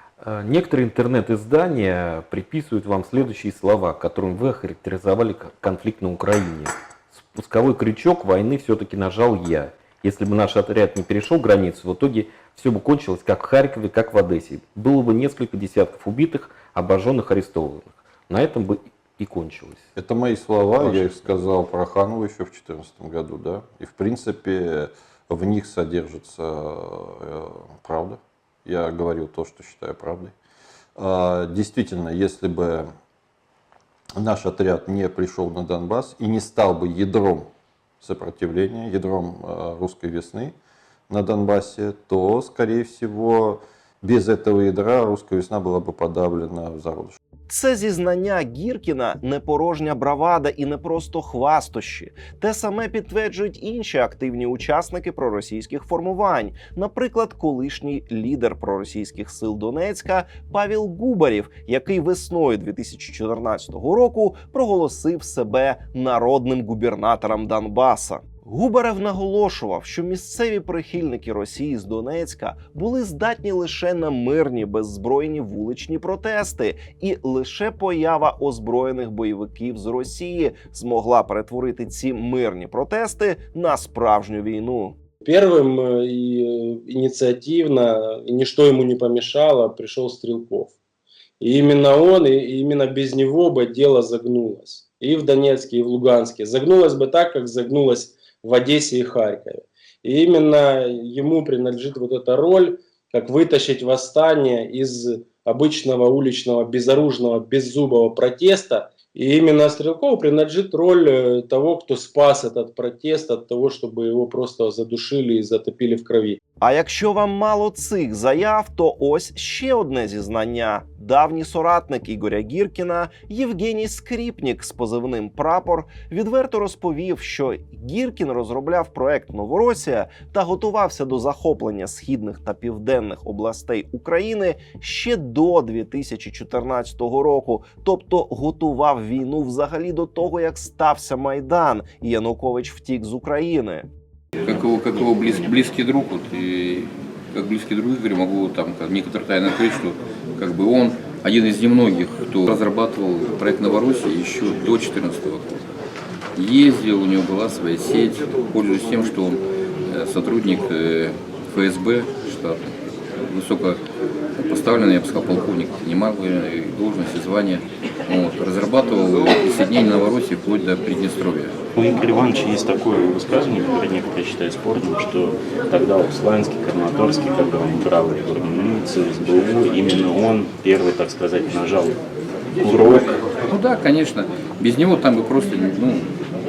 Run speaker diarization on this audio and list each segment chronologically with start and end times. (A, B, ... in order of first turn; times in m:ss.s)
0:00.2-0:19.9 A
0:20.0-0:30.3 B
0:20.8-0:21.2 A
0:31.0-0:32.9 B
0:34.2-0:37.5 B
0:38.0-0:40.5 B
0:41.1-0:47.2 B
0:47.5-1:25.0 C
1:25.2-1:25.6 D
1:26.9-1:30.7 D
1:31.4-1:56.4 D
1:56.6-2:23.9 C
2:24.4-2:35.6 E
2:36.4-2:43.8 E
2:44.4-2:51.6 E
2:51.8-3:02.0 F
3:02.6-3:03.1 F
3:03.3-3:06.1 E